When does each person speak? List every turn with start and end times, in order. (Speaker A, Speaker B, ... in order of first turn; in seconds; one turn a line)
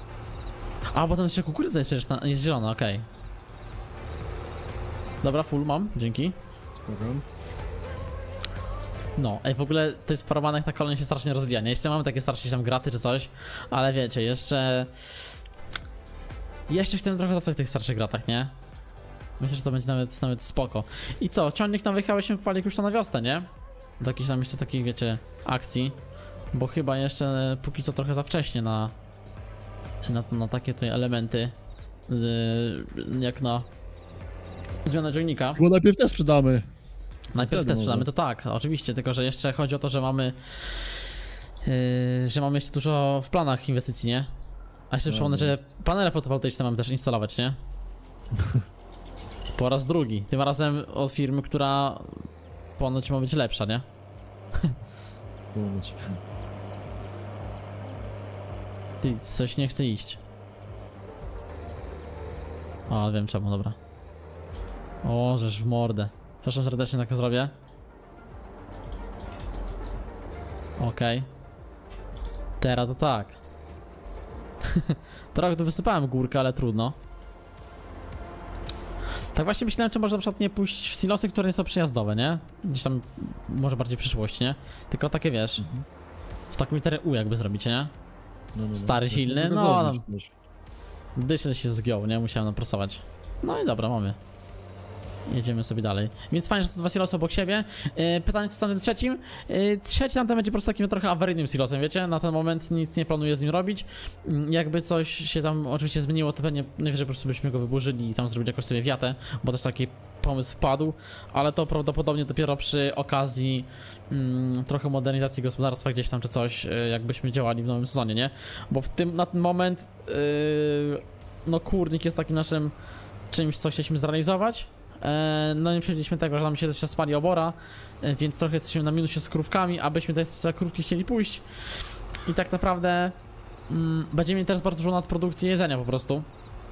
Speaker A: 0.9-3.1
Speaker A: 5.2-6.4
Speaker B: 6.7-7.2
Speaker A: 9.2-14.9
Speaker A: 16.7-18.5
Speaker A: 19.4-23.5
Speaker A: 24.0-26.0
Speaker A: 26.5-28.9
Speaker A: 30.0-31.5
Speaker A: 32.1-33.7
Speaker A: 34.9-35.6
Speaker B: 35.6-36.6
Speaker B: 37.3-38.1
Speaker A: 37.4-40.4
Speaker A: 41.6-44.3
Speaker A: 44.9-47.6
Speaker B: 45.1-45.5
Speaker B: 48.3-48.6
Speaker A: 49.5-52.3
Speaker A: 52.8-53.9
Speaker B: 55.5-56.2
Speaker A: 59.0-60.2
Speaker A: 62.9-63.8
Speaker A: 65.0-67.5
Speaker A: 70.8-71.3
Speaker A: 72.6-73.4
Speaker A: 74.7-77.0
Speaker A: 79.3-85.7
Speaker B: 85.6-85.8
Speaker A: 86.5-87.9
Speaker B: 88.5-90.3
Speaker A: 88.7-90.0
Speaker A: 91.2-94.2
Speaker A: 95.3-122.7
Speaker A: 123.3-131.4
Speaker A: 132.3-133.2
Speaker A: 133.7-136.3